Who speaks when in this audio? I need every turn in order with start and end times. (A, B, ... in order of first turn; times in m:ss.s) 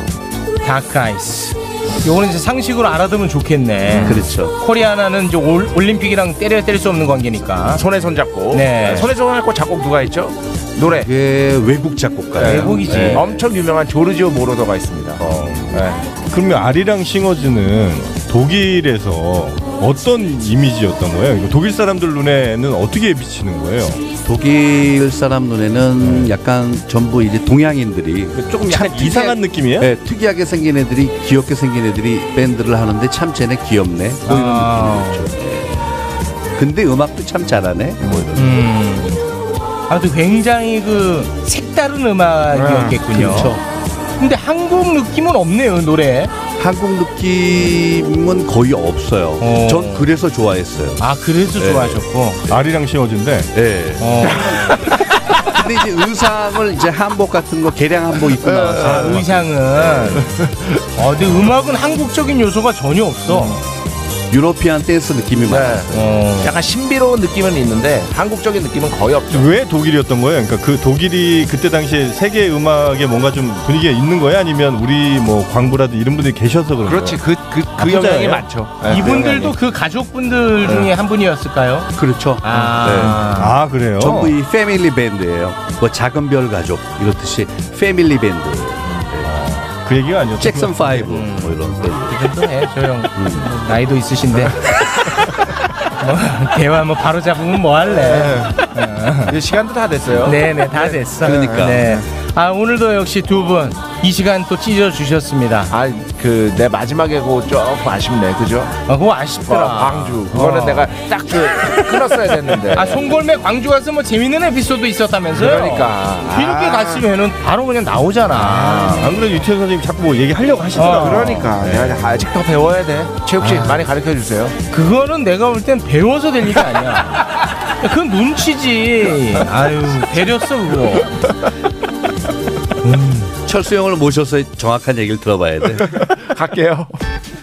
0:00.6-0:07.8 A
0:03.9-0:04.2 B
0:04.0-0:04.5 C
0:07.7-0:11.1 B
0:08.5-0:09.1 A
0:11.0-0:13.4 C
0:12.4-0:16.1 B
0:12.4-0:13.3 A
0:15.2-0:24.0 D
0:15.2-0:15.5 C
0:24.2-0:35.8 C
0:26.0-0:26.3 D
0:28.6-0:29.9 D
0:34.2-0:35.3 A
0:36.6-0:38.7 C
0:38.0-0:38.3 B
0:38.3-0:39.2 A
0:39.9-0:43.5 A
0:42.5-0:43.0 B
0:43.0-0:43.6 C
0:44.2-0:46.3 A
0:46.6-0:51.0 C
0:49.4-0:50.1 A
0:51.0-0:52.4 A
0:51.6-0:52.0 C
0:52.5-0:53.5 D
0:53.5-0:54.7 C
0:54.0-0:54.8 A
0:55.5-0:59.3 C
0:58.4-0:59.2 B
0:58.8-1:00.3 A
1:00.2-1:00.5 B
1:01.0-1:03.6 A
1:04.3-1:05.9 C
1:05.5-1:09.5 B
1:05.9-1:06.5 A
1:09.3-1:17.2 D
1:16.8-1:19.5 B
1:17.8-1:18.4 D
1:18.8-1:21.9 A
1:21.9-1:23.2 C
1:22.4-1:24.2 A
1:23.0-1:24.3 D
1:24.0-1:29.3 C
1:29.2-1:31.0 D
1:30.4-1:32.2 C
1:31.1-1:34.6 A
1:33.1-1:33.5 C
1:36.0-1:39.4 A
1:38.0-1:38.6 B
1:39.3-1:41.0 B
1:40.2-1:45.7 A
1:41.2-1:42.0 C
1:45.7-1:48.8 B
1:48.9-1:50.9 A
1:49.4-1:53.0 B
1:52.7-1:59.1 A
1:55.3-1:57.0 B
1:58.3-2:02.2 D
2:00.7-2:01.5 A
2:00.8-2:04.6 B
2:03.4-2:03.8 A
2:04.7-2:11.2 A
2:12.8-2:13.3 A
2:13.4-2:15.8 C
2:15.8-2:16.9 B